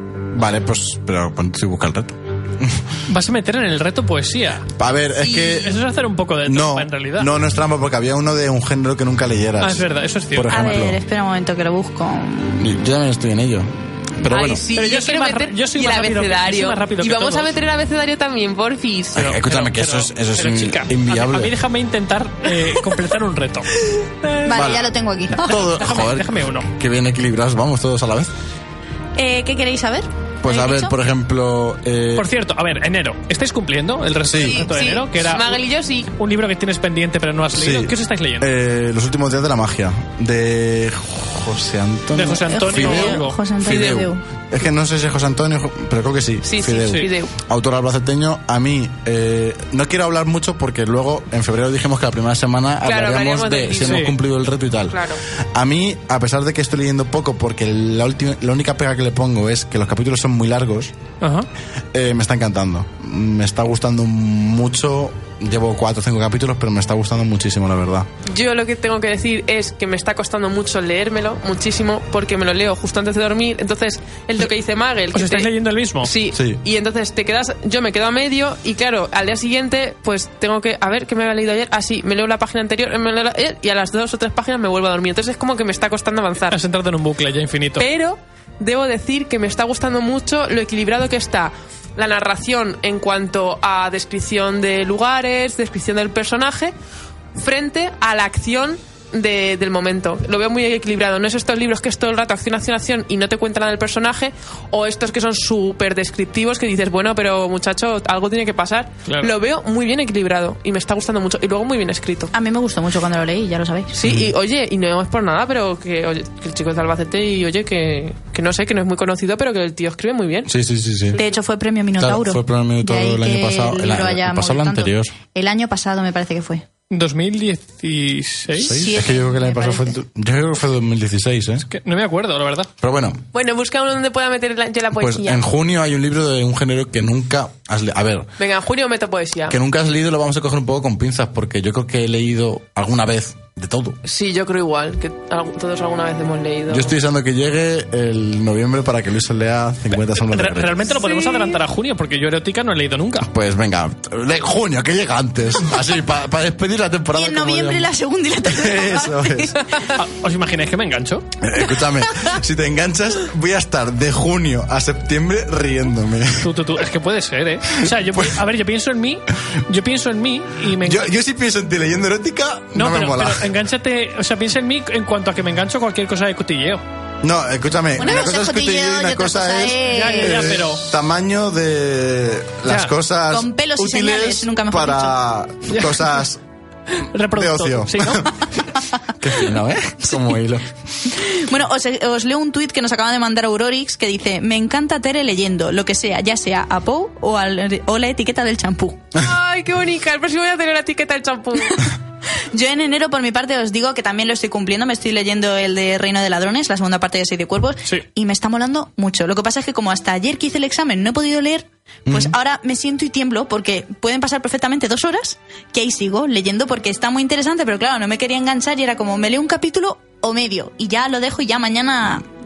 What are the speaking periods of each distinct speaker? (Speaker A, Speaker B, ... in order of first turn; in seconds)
Speaker A: 0.3-2.9, 4.7-5.8, 6.4-11.0, 12.6-14.6, 19.1-21.5, 24.5-28.3, 30.4-32.3, 34.2-34.7, 37.5-60.9, 61.9-68.1, 76.3-76.6, 114.0-114.3, 120.5-121.2, 122.0-125.1, 128.6-131.6, 132.8-133.2, 134.9-138.3, 139.5-144.0, 146.7-150.9, 153.2-157.9, 158.4-159.6, 161.4-166.5, 167.8-168.4, 170.8-173.5, 177.2-186.4, 187.3-188.4, 189.2-190.7, 212.1-212.3
Speaker B: 3.1-4.7, 5.5-7.3, 9.6-10.7, 14.7-17.6, 19.2-24.3, 25.4-26.7, 32.1-35.6, 36.2-38.5, 42.1-43.4, 53.8-54.1, 61.2-61.5, 75.1-76.1, 86.5-87.8, 109.1-109.3, 126.9-128.9, 131.7-132.7, 149.9-153.3, 159.9-161.3, 166.4-171.1, 172.7-176.8, 179.8-180.9, 182.6-182.9, 185.7-186.1, 187.0-188.3
Speaker C: 5.2-5.6, 14.2-19.3, 34.4-36.1, 43.6-44.1, 46.4-47.3, 52.8-54.1, 54.9-55.2, 68.2-75.5, 76.0-86.6, 87.8-96.7, 97.3-112.3, 113.9-120.5, 133.3-135.4, 138.4-139.6, 144.0-146.9, 151.0-151.6, 199.2-201.9
Speaker D: 10.5-12.7, 24.4-25.6, 29.1-30.9, 42.5-44.2, 112.3-114.0, 121.1-126.6, 128.6-129.9, 157.1-159.6, 178.0-180.6, 183.3-185.2, 191.1-199.0, 202.5-222.2